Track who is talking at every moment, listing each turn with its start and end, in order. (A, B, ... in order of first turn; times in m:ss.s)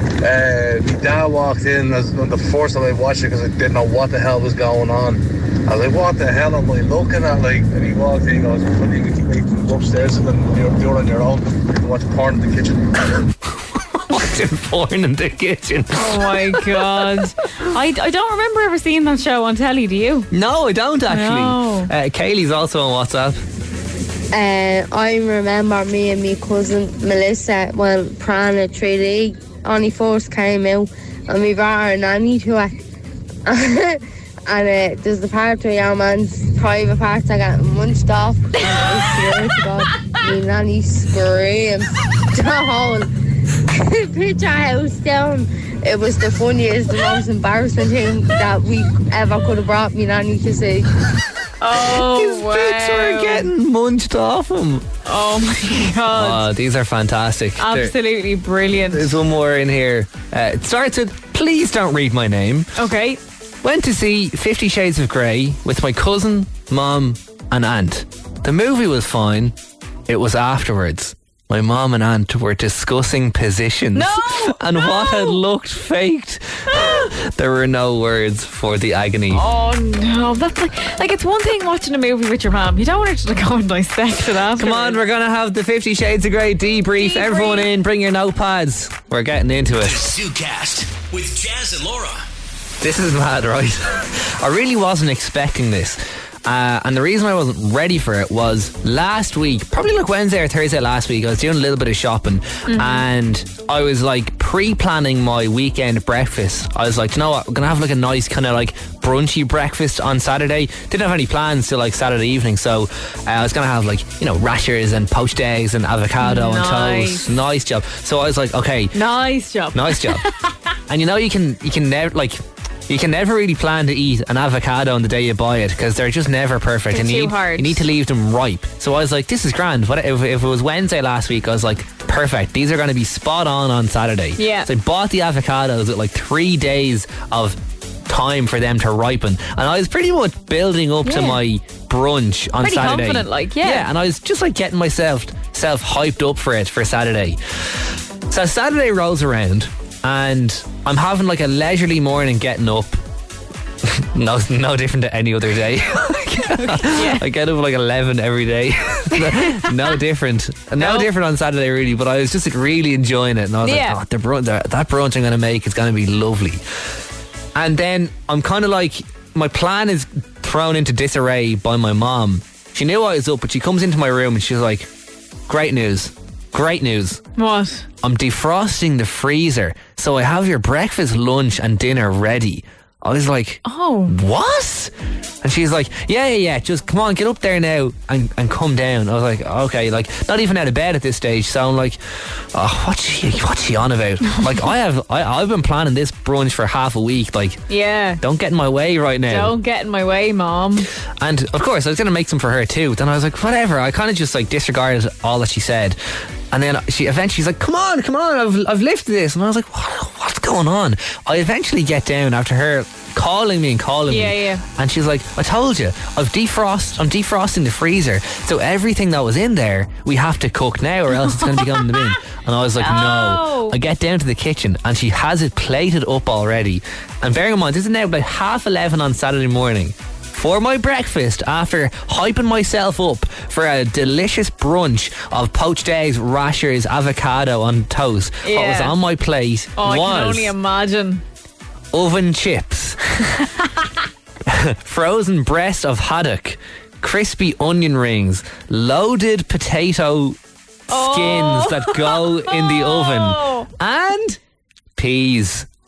0:00.2-0:12.8 A
0:13.9-0:17.3 B
0:15.9-0:20.3 C
0:20.3-0:23.4 B
0:21.1-0:21.9 C
0:24.3-0:32.7 D
0:33.4-0:43.1 D
0:43.7-0:50.9 D
0:51.6-0:53.5 C
0:51.7-0:54.8 B
0:55.0-0:56.5 C
0:56.1-0:57.9 B
0:57.6-0:59.2 C
0:58.9-1:02.7 B
1:02.8-1:03.2 C
1:03.6-1:09.5 B
1:10.1-1:19.4 B
1:13.9-1:15.4 C
1:16.7-1:17.0 C
1:19.3-1:25.0 C
1:24.5-1:30.0 B
1:27.0-1:27.7 C
1:29.8-1:32.2 E
1:32.8-1:59.0 B
1:42.7-1:43.0 C
1:56.2-1:57.3 C
1:58.9-2:00.5 C
1:59.7-2:00.2 B
2:00.9-2:27.4 B
2:06.9-2:07.8 C
2:14.4-2:14.7 C
2:21.0-2:21.4 C
2:22.6-2:23.8 C
2:28.3-2:33.0 B
2:33.8-2:46.6 B
2:36.2-2:37.2 C
2:39.1-2:39.9 C
2:40.8-2:41.1 C
2:43.6-2:44.0 C
2:47.5-2:54.9 B
2:55.5-2:57.2 B
2:57.4-2:57.8 C
2:58.0-3:12.0 B
3:03.6-3:04.1 C
3:12.5-3:17.6 B
3:17.7-3:18.2 C
3:18.2-3:19.6 B
3:19.3-3:20.9 C
3:21.2-3:26.0 B
3:26.5-4:00.5 B
3:34.1-3:34.6 C
3:41.1-3:42.2 C
3:42.8-3:43.8 C
3:58.4-3:58.9 C
3:59.8-4:01.2 C
4:01.9-4:03.0 B
4:03.4-4:03.9 C
4:04.4-4:10.4 B
4:10.9-4:13.7 C
4:10.9-4:14.4 B
4:15.0-4:15.7 B